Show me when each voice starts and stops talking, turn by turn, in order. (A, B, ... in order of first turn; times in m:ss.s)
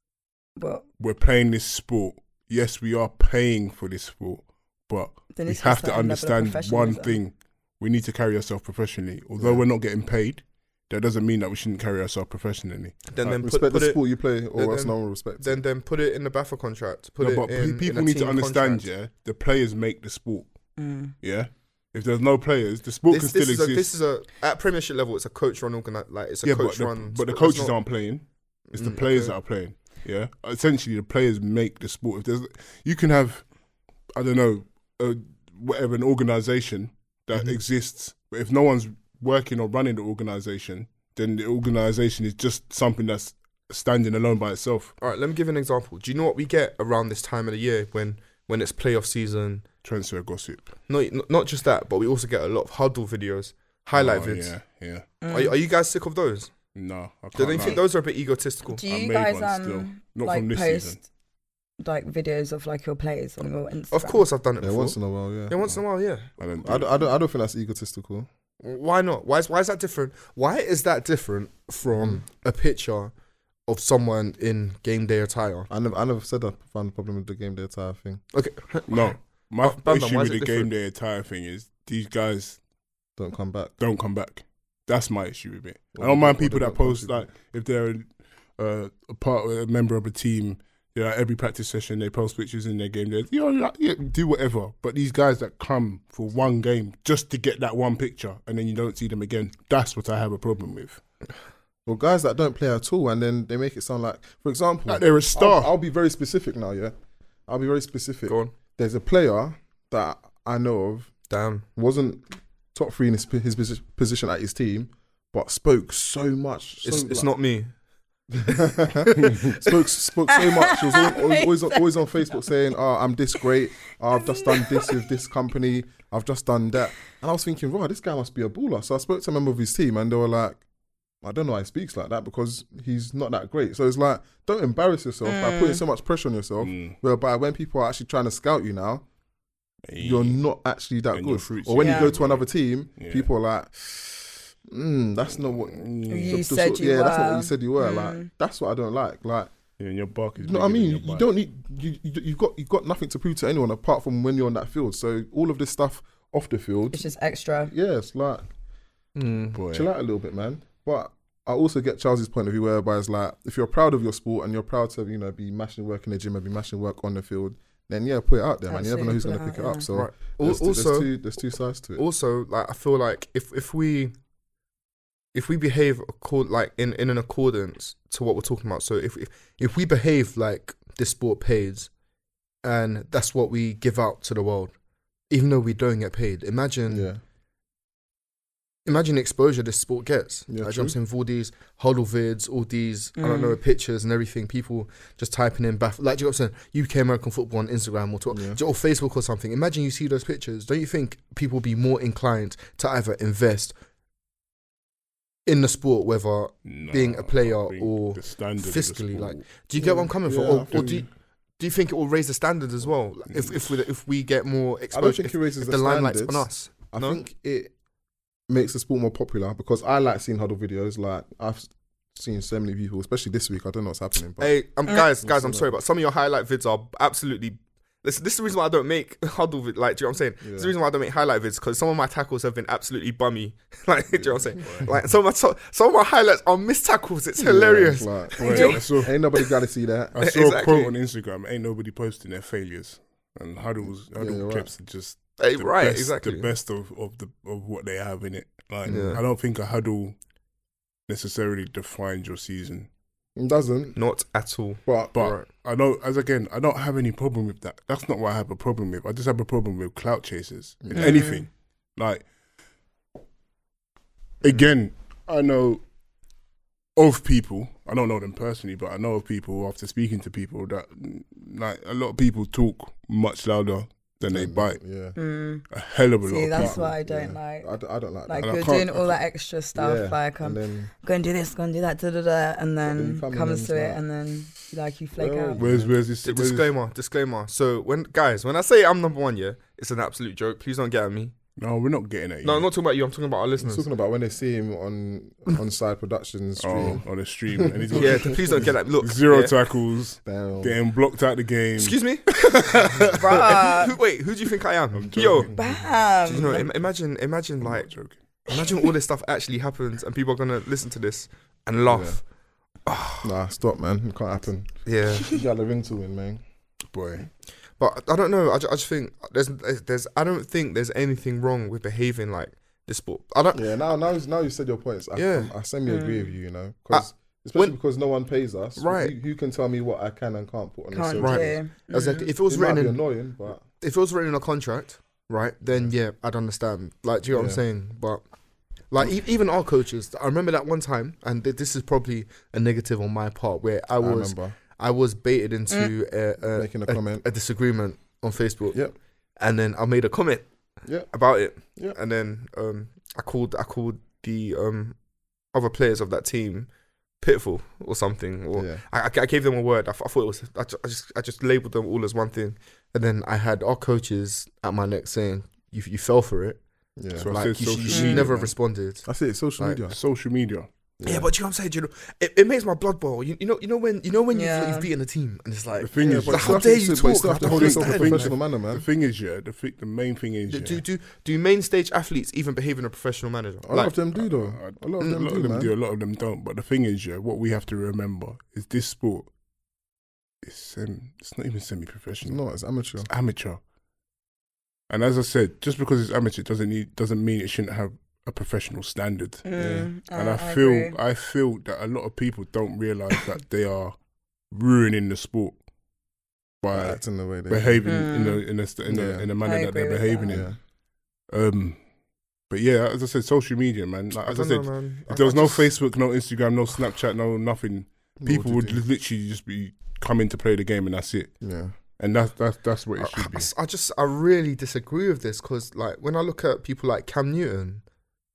0:00.6-0:00.8 A
0:01.0-0:13.4 B
0:05.3-0:07.2 A
0:09.4-0:09.6 C
0:13.1-0:14.0 D
0:13.4-0:15.6 C
0:14.5-0:18.8 D
0:17.2-0:20.5 B
0:20.8-0:21.1 A
0:21.2-0:23.9 B
0:23.1-0:27.8 D
0:26.4-0:33.4 B
0:28.7-0:29.3 D
0:34.1-0:44.9 B
0:45.0-0:49.6 D
0:49.8-0:50.7 B
0:50.9-0:54.5 D
0:53.9-0:55.0 B
0:55.2-0:55.5 A
0:55.3-0:56.5 D
0:56.7-0:57.8 B
0:57.3-0:58.8 D
0:58.7-1:01.0 A
0:58.8-1:01.0 B
1:01.8-1:04.2 A
1:03.9-1:06.3 D
1:04.6-1:05.8 C
1:06.4-1:06.9 B
1:06.6-1:08.3 C
1:08.6-1:13.1 D
1:11.9-1:12.2 C
1:13.7-1:15.7 D
1:15.7-1:18.2 C
1:18.3-1:20.7 D
1:18.9-1:22.6 B
1:23.2-1:23.7 C
1:23.8-1:41.0 B
1:26.0-1:27.3 C
1:41.8-1:46.9 C
1:44.9-1:45.7 B
1:47.5-1:51.1 C
1:48.3-1:48.5 D
1:51.3-1:51.6 D
1:51.8-1:57.3 C
1:56.8-1:57.7 D
1:58.3-2:10.6 C
1:58.4-1:59.6 D
2:00.3-2:02.4 A
2:04.2-2:05.1 A
2:11.2-2:19.0 C
2:15.2-2:15.8 A
2:16.6-2:17.0 B
2:19.9-2:20.4 B
2:20.0-2:29.5 C
2:21.1-2:23.3 B
2:21.8-2:22.1 A
2:25.4-2:26.5 B
2:26.1-2:28.3 A
2:29.8-2:31.2 B
2:30.4-2:37.0 C
2:36.9-2:37.7 A
2:37.6-2:38.5 C
2:39.1-2:39.6 D
2:39.5-2:39.9 B
2:39.7-2:52.0 C
2:48.7-2:49.9 A
2:49.9-2:51.1 D
2:52.0-2:54.1 D
2:55.3-3:01.9 D
3:02.6-3:04.7 D
3:05.3-3:07.1 D
3:06.9-3:07.2 C
3:08.8-3:23.7 D
3:10.5-3:10.9 C
3:13.2-3:13.6 A
3:18.3-3:18.6 C
3:25.4-3:31.1 D
3:26.6-3:29.4 B
3:29.8-3:31.0 C
3:30.7-3:31.0 B
3:31.6-3:37.2 D
3:34.9-3:37.7 C
3:38.5-3:44.5 C
3:44.4-3:58.9 D
3:45.2-3:45.7 C
3:50.4-3:50.7 C
3:54.6-3:54.9 B
3:57.4-4:00.1 C
3:58.4-3:58.8 A
3:58.4-3:59.1 B
4:00.1-4:10.1 B
4:00.2-4:00.9 D
4:04.1-4:04.7 C
4:05.4-4:06.5 D
4:08.8-4:09.2 D
4:11.1-4:12.9 B
4:13.4-4:14.0 C
4:14.0-4:15.4 D
4:14.8-4:15.2 C
4:15.1-4:22.2 B
4:20.8-4:21.3 C
4:20.9-4:21.4 A
4:24.4-4:25.8 B
4:27.0-4:34.8 B
4:34.3-4:35.2 C
4:35.2-4:35.6 A
4:35.7-4:36.8 B
4:36.2-4:37.7 A
4:36.5-4:38.7 C
4:38.2-4:45.6 A
4:38.4-4:39.2 B
4:39.7-4:40.9 C
4:42.8-4:44.0 C
4:45.1-4:46.0 C
4:45.6-4:46.7 B
4:46.2-4:51.3 D
4:51.6-4:52.7 B
4:52.4-4:53.8 D
4:53.6-4:58.4 C
4:56.6-5:03.2 B
4:57.9-4:59.6 D
5:00.2-5:00.8 C
5:01.8-5:05.5 D
5:03.2-5:04.0 A
5:04.9-5:05.6 B
5:05.5-5:05.9 C
5:05.5-5:06.6 A
5:06.2-5:07.9 D
5:07.6-5:08.7 B
5:08.5-5:12.2 D
5:11.9-5:12.2 C
5:12.8-5:13.3 D
5:13.2-5:16.4 C
5:14.8-5:15.3 D
5:16.9-5:17.3 B
5:17.8-5:23.6 D
5:23.5-5:33.6 C
5:25.1-5:25.5 D
5:25.9-5:26.3 A
5:26.9-5:27.7 D
5:28.8-5:29.1 D
5:30.9-5:31.7 A
5:31.2-5:33.0 D
5:33.8-5:38.2 D
5:37.3-5:37.6 C
5:38.9-5:48.8 D
5:44.0-5:44.6 C
5:46.5-5:47.2 C
5:49.4-5:50.5 D
5:51.1-5:55.0 D
5:55.5-5:56.7 D
5:57.2-6:06.6 D
5:58.5-5:58.8 C
6:07.0-6:07.3 C
6:07.2-6:08.5 B
6:07.2-6:09.1 D
6:07.9-6:08.2 A
6:09.0-6:10.0 C
6:09.9-6:10.7 B
6:11.0-6:11.3 C
6:11.0-6:18.3 D
6:14.3-6:14.9 A
6:15.8-6:16.7 B
6:16.0-6:18.8 C
6:17.4-6:20.8 B
6:20.5-6:24.0 D
6:23.6-6:25.7 C
6:24.1-6:29.3 B
6:30.4-6:32.4 B
6:32.2-6:33.1 C
6:33.1-6:33.6 B
6:34.9-6:39.4 B
6:39.4-6:41.0 A
6:39.5-6:39.9 C
6:40.1-6:44.0 B
6:44.5-6:45.6 B
6:46.6-6:50.5 B
6:46.7-6:48.1 C
6:47.8-6:48.4 A
6:48.8-6:49.3 C
6:49.4-6:50.4 A
6:50.3-6:50.6 C
6:51.3-6:51.8 B
6:52.5-7:01.4 B
6:54.2-6:55.7 D
6:58.2-6:58.8 C
7:01.4-7:01.7 C
7:02.0-7:03.5 B
7:03.0-7:07.8 D